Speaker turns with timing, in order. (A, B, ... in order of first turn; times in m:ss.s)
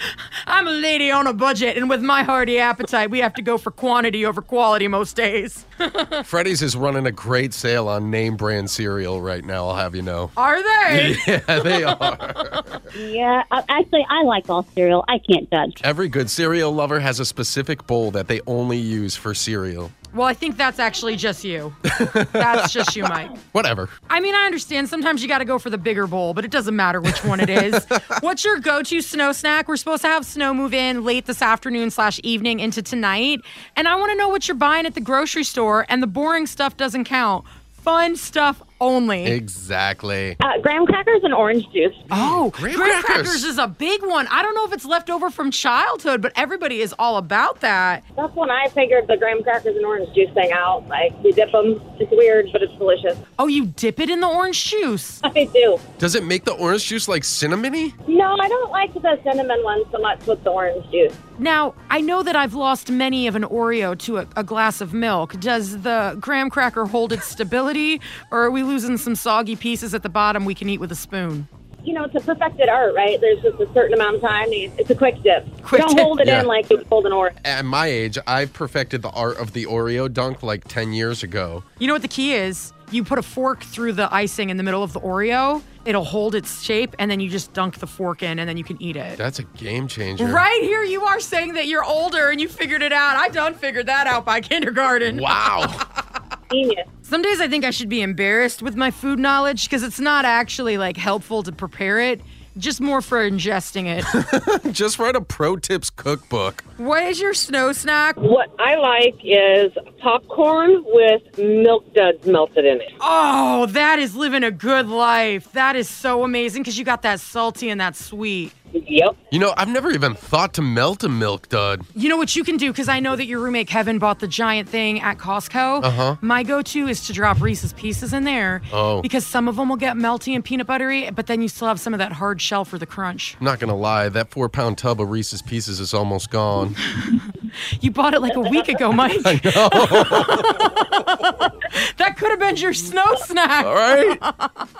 0:00.5-0:06.2 A
0:06.2-0:10.3 B
0:10.4-0:12.8 A
0:10.9-0:12.8 B
0:13.0-0:15.8 C
0:15.8-0:19.9 B
0:20.1-0:21.8 A
0:21.9-0:23.9 B
0:22.3-0:23.4 A
0:24.1-0:39.4 A
0:27.1-0:28.0 B
0:39.2-0:40.4 B
0:40.4-0:41.9 D
0:42.1-0:43.5 B
0:42.1-0:48.0 A
0:48.2-0:53.2 D
0:51.5-0:52.1 E
0:53.4-0:55.2 A
0:55.3-0:55.8 D
0:55.4-0:55.7 E
0:56.0-0:57.9 B
0:58.1-1:01.1 D
1:01.4-1:11.5 A
1:11.9-1:17.3 D
1:15.5-1:16.3 A
1:16.0-1:17.2 E
1:16.2-1:16.7 B
1:17.4-1:21.6 B
1:21.8-1:29.2 A
1:29.2-1:30.4 B
1:30.2-1:35.7 A
1:35.1-1:35.8 B
1:36.5-1:36.8 D
1:37.0-1:44.1 A
1:44.0-1:46.6 B
1:46.8-1:48.2 A
1:48.3-1:52.9 E
1:53.0-1:58.5 A
1:59.3-2:01.8 B
2:01.9-2:13.4 A
2:05.8-2:06.2 B
2:08.7-2:09.1 B
2:13.4-2:16.8 B
2:16.8-2:17.3 A
2:17.8-2:24.6 A
2:19.1-2:20.8 B
2:23.6-2:24.2 B